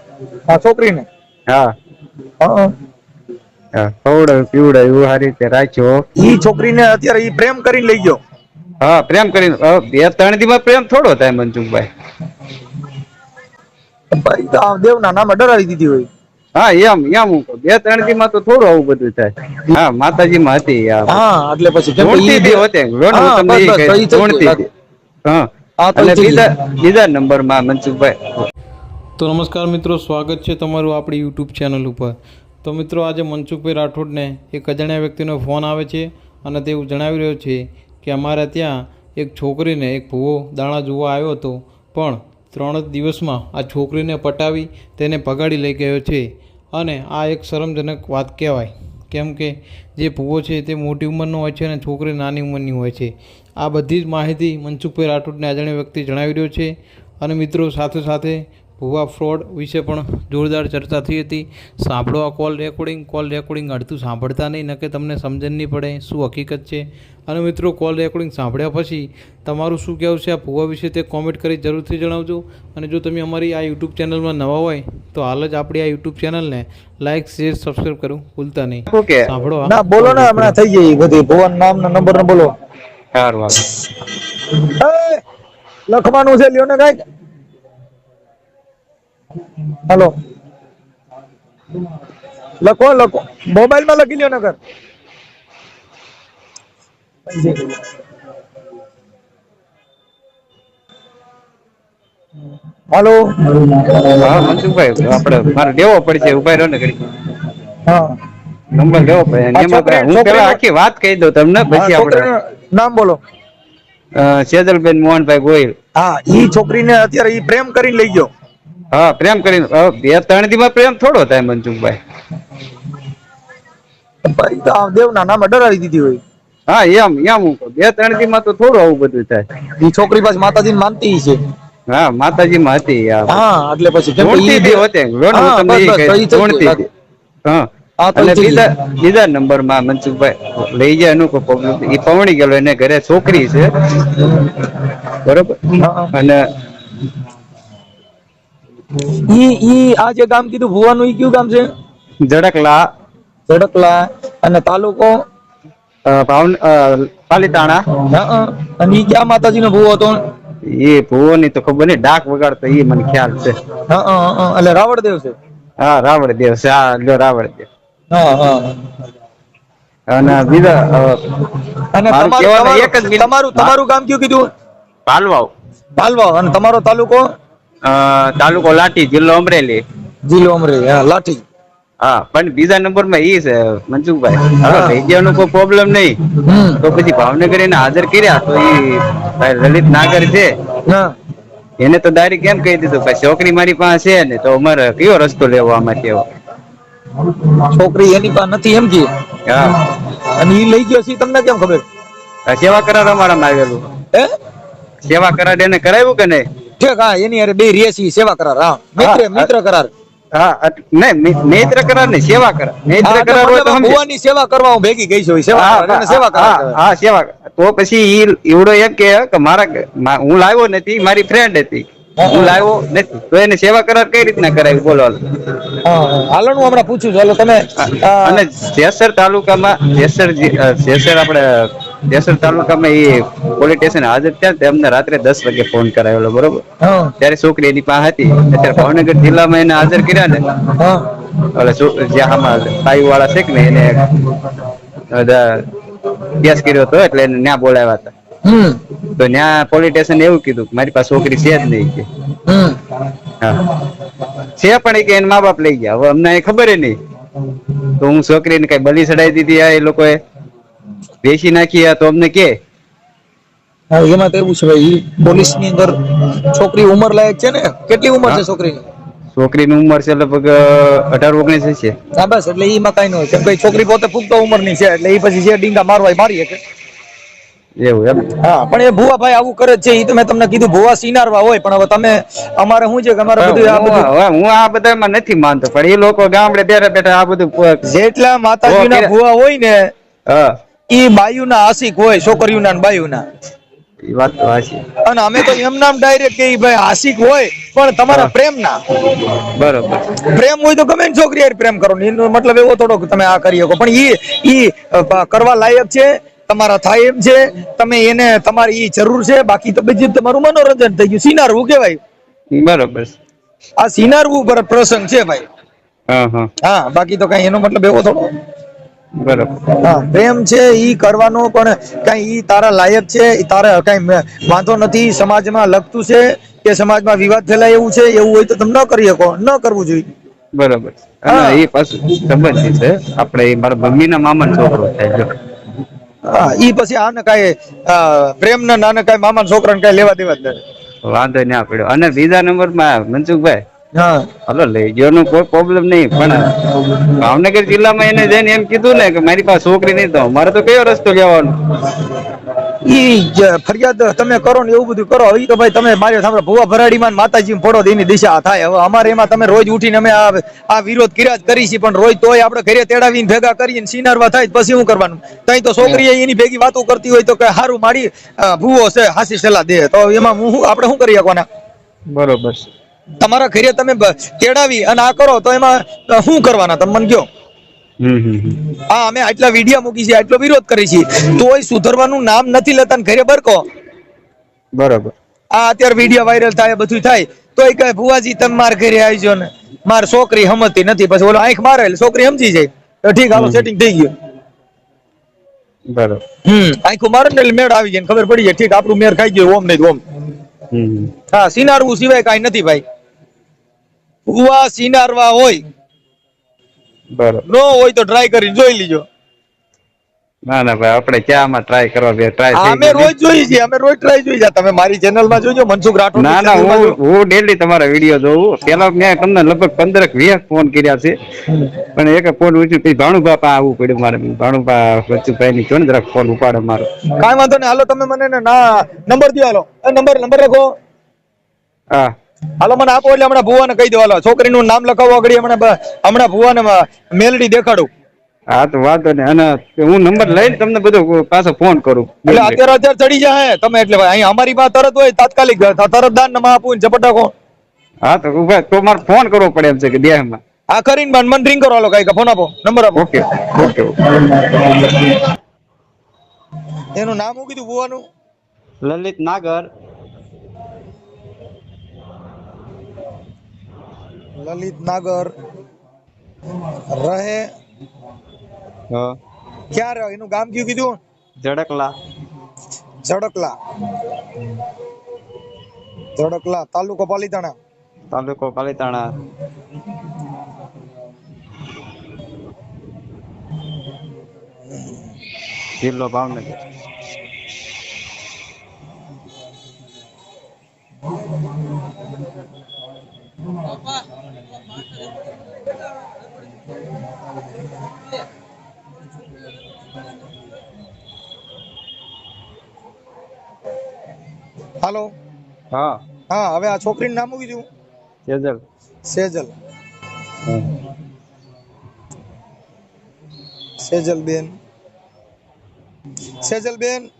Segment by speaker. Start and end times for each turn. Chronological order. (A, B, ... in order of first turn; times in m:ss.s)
0:00.5-0:01.0 A
0:02.4-0:02.7 A
0:03.8-0:06.0 B
0:06.2-0:08.2 A
0:08.8-0:11.9 B
0:14.1-0:16.0 A
0:16.6-0:21.2 B
0:21.1-0:24.6 A
0:22.0-0:24.7 B
0:25.2-0:28.4 B
0:25.8-0:26.4 A
0:29.2-1:20.5 C
1:18.9-1:19.3 B
1:19.6-1:22.5 A
1:23.1-1:23.6 B
1:24.7-1:25.2 A
1:25.9-1:27.0 A
1:29.9-1:30.1 A
1:32.6-1:34.6 A
1:37.3-1:37.8 A
1:42.9-1:44.4 A
1:44.2-1:47.0 B
1:47.8-1:48.2 A
1:48.7-1:52.3 B
1:49.5-1:50.6 A
1:51.7-1:53.2 A
1:54.2-1:55.7 B
1:56.0-1:58.3 A
1:58.9-2:02.0 B
2:04.3-2:06.2 A
2:06.7-2:09.4 B
2:09.8-2:11.4 A
2:11.9-2:13.4 B
2:13.3-2:16.8 A
2:14.2-2:16.9 B
2:17.4-2:24.2 B
2:18.0-2:18.6 A
2:25.2-2:25.6 B
2:25.8-2:26.1 A
2:26.1-2:26.4 B
2:29.3-2:31.7 A
2:32.2-2:32.8 B
2:33.5-2:35.1 A
2:36.0-2:37.8 B
2:38.1-2:40.2 A
2:40.7-2:43.6 B
2:43.9-2:45.3 A
2:45.8-2:47.7 B
2:48.1-2:48.8 A
2:50.1-2:51.2 B
2:51.9-2:54.4 A
2:52.1-2:53.7 B
2:55.1-2:55.5 B
2:56.0-2:57.2 A
2:57.8-2:59.8 B
3:00.2-3:01.4 A
3:02.0-3:06.2 B
3:04.6-3:05.0 A
3:06.4-3:06.8 A
3:06.8-3:10.5 B
3:11.8-3:16.2 B
3:17.6-3:19.0 A
3:19.4-3:19.8 B
3:20.4-3:21.8 A
3:22.5-3:23.8 B
3:25.0-3:26.4 B
3:26.8-3:29.9 A
3:29.0-3:29.5 B
3:30.3-3:34.0 B
3:33.0-3:36.8 A
3:35.5-3:45.2 B
3:42.2-3:42.6 A
3:45.8-3:48.4 A
3:47.8-3:56.6 B
3:56.8-3:57.1 A
3:57.2-4:00.4 B
4:00.7-4:01.0 A
4:01.5-4:04.0 B
4:05.1-4:05.6 B
4:06.4-4:08.1 B
4:08.4-4:08.8 A
4:09.1-4:12.1 B
4:12.5-4:12.8 A
4:14.5-4:17.0 B
4:18.0-4:20.2 B
4:21.2-4:22.5 B
4:23.9-4:26.0 A
4:26.5-4:28.8 A
4:29.3-4:31.9 B
4:32.2-4:36.6 A
4:37.8-4:38.3 B
4:38.4-4:44.1 A
4:43.4-4:47.8 B
4:47.9-4:49.8 A
4:48.7-4:49.1 B
4:50.9-4:53.2 A
4:54.1-4:54.8 B
4:55.0-4:58.8 A
4:59.5-5:00.0 B
5:00.3-5:12.0 A
5:12.5-5:13.1 B
5:13.8-5:15.4 A
5:16.1-5:16.5 B
5:16.6-5:18.3 A
5:19.2-5:19.5 B
5:19.8-5:30.0 A
5:30.6-5:35.3 B
5:31.3-5:31.7 A
5:36.3-5:40.6 A
5:41.0-5:43.6 B
5:44.0-5:44.2 A
5:44.5-5:46.5 B
5:47.2-5:51.5 B
5:52.8-6:11.4 A
6:12.1-6:12.6 B
6:13.2-6:17.2 A
6:18.0-6:18.6 B
6:18.9-6:23.6 A
6:24.8-6:25.1 B
6:25.5-6:34.1 A
6:33.3-6:33.7 B
6:35.9-6:36.2 B
6:36.4-6:40.0 A
6:40.7-6:41.1 B
6:41.3-6:42.8 A
6:44.3-6:45.6 A
6:47.2-6:47.4 B
6:47.5-6:49.0 A
6:50.5-6:53.1 B
6:52.5-6:57.0 A
6:56.2-7:01.1 B
7:01.9-7:06.9 B
7:07.2-7:10.7 A
7:12.6-7:17.9 A
7:18.5-7:22.6 B
7:22.3-7:27.3 A
7:28.0-7:30.4 B
7:30.7-7:33.0 A
7:33.0-7:34.0 B
7:34.2-7:35.1 A
7:36.9-7:38.0 A
7:38.8-7:39.7 B
7:44.4-7:45.3 A
7:46.9-7:47.4 A
7:48.9-7:49.2 B
7:49.7-7:51.0 A
7:51.4-7:51.9 B
7:53.0-7:53.5 A
7:56.2-7:57.5 A
7:58.1-7:59.1 B
8:04.7-8:05.0 A
8:05.8-8:06.6 B
8:24.8-8:25.1 A
8:25.7-8:26.0 B
8:26.3-8:27.6 A
8:28.3-8:28.6 B
8:29.1-8:29.5 A
8:30.4-8:30.7 B
8:33.8-8:34.5 A
8:36.4-8:37.1 A